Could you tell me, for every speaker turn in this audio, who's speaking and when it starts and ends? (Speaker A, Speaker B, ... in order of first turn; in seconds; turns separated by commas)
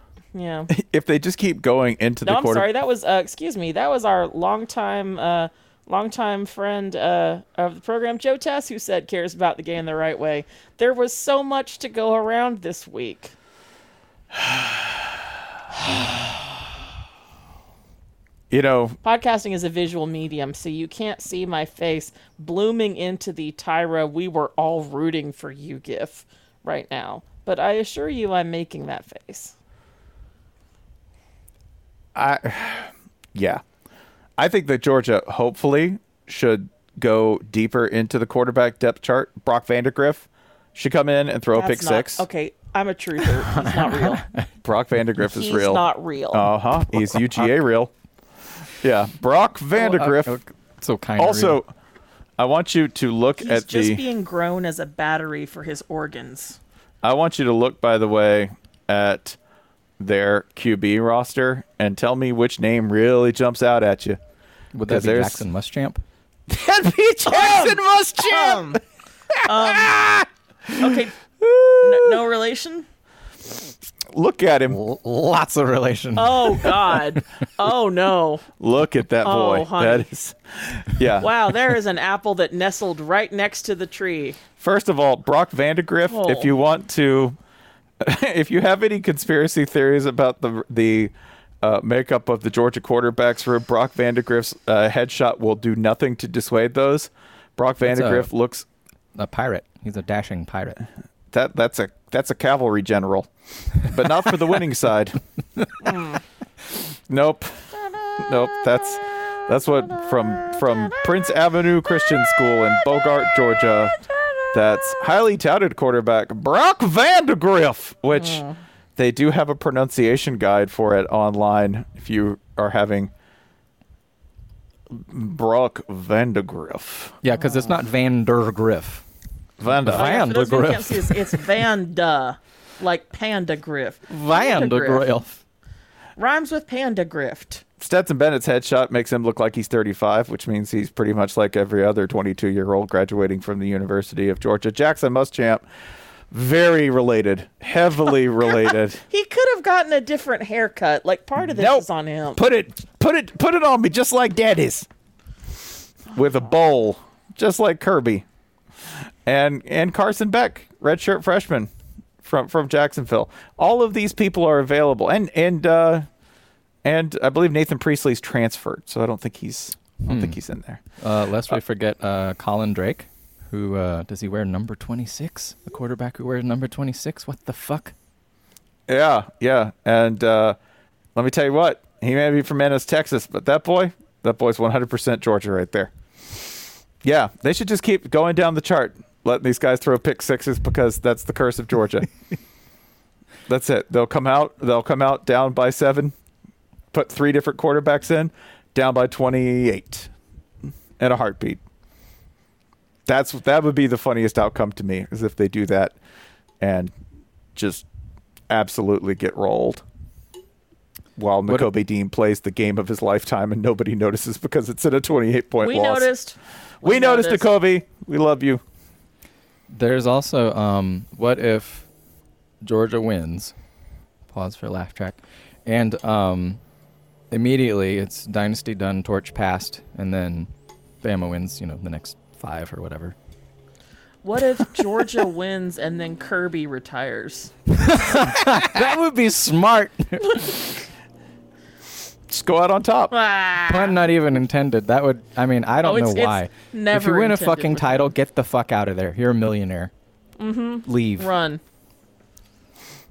Speaker A: 0.3-0.7, Speaker B: 0.7-2.6, Speaker A: 2.2-13.3, Speaker B: 14.4-14.8, Speaker B: 18.5-19.0, Speaker A: 19.0-29.6, Speaker B: 32.1-33.6, Speaker B: 34.4-42.2, Speaker A: 41.5-44.2, Speaker C: 43.6-44.5, Speaker B: 44.6-47.9, Speaker A: 45.4-46.5, Speaker B: 48.6-50.4, Speaker C: 49.8-51.6, Speaker B: 51.2-51.7, Speaker B: 52.4-54.0, Speaker A: 53.4-56.6, Speaker B: 57.0-59.4, Speaker B: 60.0-64.2, Speaker C: 64.7-66.0, Speaker B: 64.9-65.4, Speaker B: 66.5-68.8, Speaker A: 67.3-68.8, Speaker A: 69.4-70.0, Speaker B: 69.5-72.2, Speaker A: 70.8-71.1, Speaker A: 71.8-72.9, Speaker B: 74.1-74.8, Speaker C: 74.7-77.0, Speaker A: 76.2-78.4, Speaker B: 78.6-81.3, Speaker A: 79.2-80.1, Speaker A: 81.2-84.4, Speaker B: 84.6-87.4, Speaker A: 86.1-86.5, Speaker B: 88.0-98.6, Speaker C: 97.8-98.3, Speaker C: 99.1-100.8, Speaker B: 101.3-105.2, Speaker A: 105.8-106.2, Speaker B: 107.1-118.4, Speaker A: 107.9-111.1, Speaker A: 111.9-115.0, Speaker A: 118.1-118.6, Speaker B: 119.0-123.1, Speaker B: 124.9-127.2, Speaker C: 127.2-129.1, Speaker A: 127.4-127.7, Speaker B: 129.6-130.1, Speaker C: 129.7-131.4, Speaker A: 129.9-135.1, Speaker C: 134.1-135.4, Speaker A: 136.2-137.6, Speaker B: 137.8-145.6, Speaker B: 146.3-149.0, Speaker A: 149.1-152.4, Speaker B: 151.6-154.9, Speaker B: 156.1-158.2, Speaker B: 159.2-161.7, Speaker B: 162.2-166.1, Speaker B: 166.8-170.8, Speaker C: 170.1-170.4, Speaker C: 171.0-177.9, Speaker B: 178.9-180.6, Speaker B: 181.1-185.9, Speaker B: 187.0-192.1, Speaker B: 193.5-196.1, Speaker B: 196.9-200.1, Speaker B: 201.0-201.6, Speaker B: 203.1-205.9, Speaker B: 206.6-206.9, Speaker B: 207.6-207.8, Speaker B: 208.5-209.8, Speaker B: 211.2-216.1, Speaker A: 215.6-217.5, Speaker B: 216.8-218.6, Speaker C: 219.7-221.9, Speaker C: 222.6-223.6, Speaker C: 224.3-226.6, Speaker C: 227.3-230.5, Speaker C: 231.0-233.2, Speaker A: 234.2-237.5, Speaker C: 237.7-240.7, Speaker B: 242.3-243.1, Speaker A: 243.1-244.0, Speaker C: 243.7-249.9, Speaker A: 245.8-248.1, Speaker A: 250.4-251.6, Speaker C: 250.9-251.3